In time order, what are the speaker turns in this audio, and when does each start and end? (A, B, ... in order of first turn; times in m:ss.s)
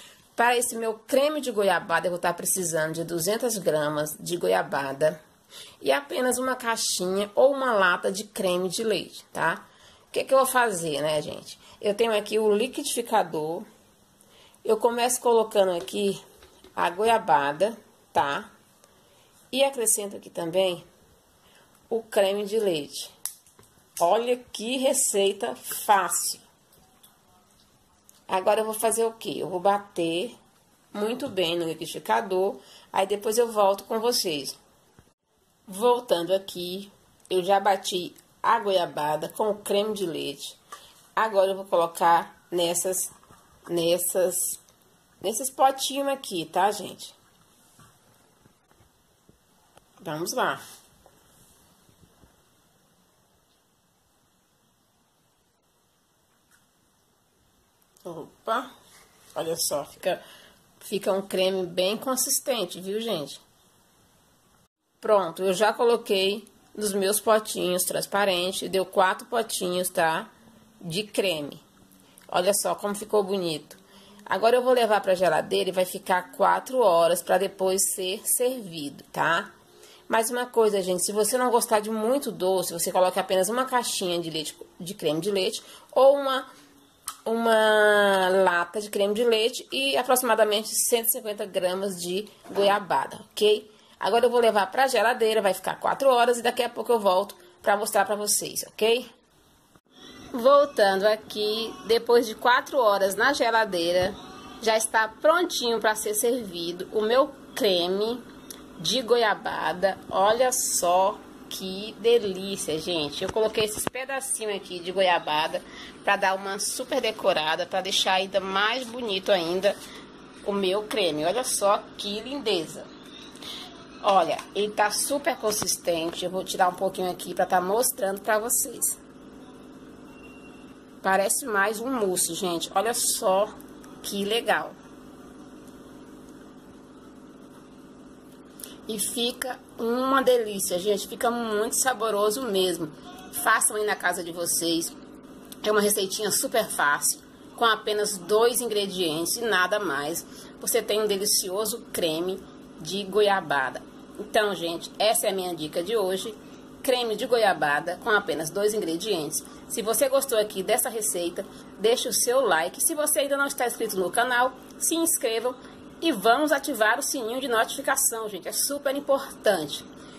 0:00.4-0:05.2 A
0:05.8-0:13.7 A
0:14.6-0:16.2 A
0:16.8-0:18.5 A
0:19.5-0:20.8 A
0:21.9-0:23.1 A
0:24.0-0:26.4 A
0:28.3-0:30.3 A
0:30.9-0:34.6 A
0:35.7-0:40.6 A
0:41.2-0:43.1 A
0:43.7-0:44.6 A
0:45.2-0:47.2 A
0:50.0-0:50.6 A
0:58.0-0:58.7 A
0:59.3-1:00.2 A
1:00.8-1:03.4 A
1:05.0-1:10.3 A
1:10.8-1:11.6 A
1:12.3-1:19.5 A
1:20.1-1:26.5 A
1:27.2-1:39.1 A
1:40.3-1:48.2 A
1:48.8-1:59.8 A
2:00.4-2:02.9 A
2:04.0-2:09.0 A
2:11.0-2:14.8 A
2:18.9-2:24.9 A
2:25.6-2:49.8 A